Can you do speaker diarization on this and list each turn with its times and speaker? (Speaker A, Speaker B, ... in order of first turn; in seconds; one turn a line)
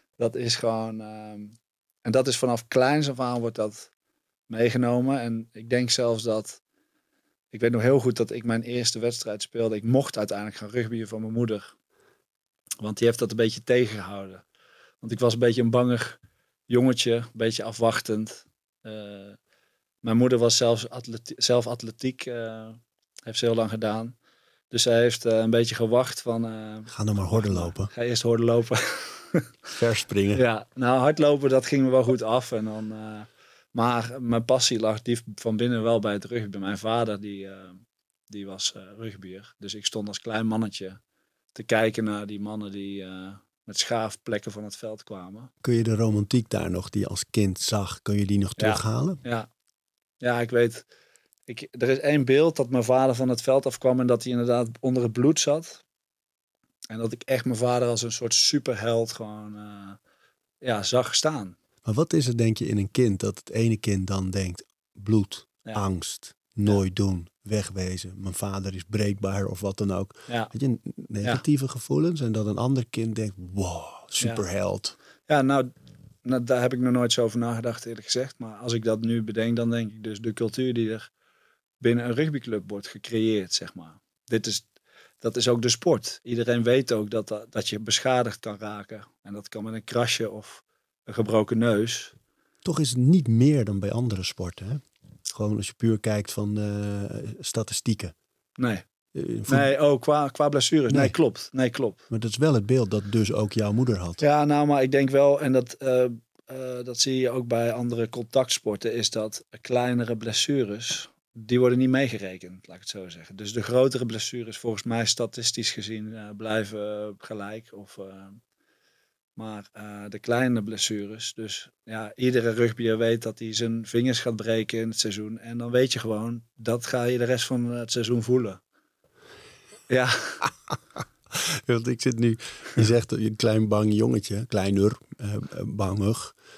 Speaker A: 0.2-3.9
Speaker A: 4.5-6.6
Speaker A: 7.5-11.8
Speaker A: 12.8-14.4
Speaker A: 15.0-19.4
Speaker A: 20.0-24.1
Speaker A: 24.7-29.5
Speaker B: 26.9-27.9
Speaker B: 29.8-30.4
Speaker A: 30.3-41.0
Speaker A: 41.5-45.5
Speaker B: 45.6-49.2
Speaker A: 48.6-49.5
Speaker A: 50.2-50.9
Speaker A: 51.5-55.8
Speaker A: 56.9-60.0
Speaker A: 60.6-61.6
Speaker B: 61.9-75.0
Speaker A: 74.2-74.4
Speaker A: 75.3-75.7
Speaker A: 76.2-81.1
Speaker A: 81.8-84.7
Speaker A: 85.2-92.1
Speaker B: 92.6-98.2
Speaker A: 98.6-98.8
Speaker B: 99.2-99.7
Speaker A: 99.5-102.0
Speaker B: 100.9-101.2
Speaker B: 102.1-104.2
Speaker A: 104.2-118.4
Speaker A: 119.4-128.6
Speaker A: 129.9-130.5
Speaker B: 131.3-136.4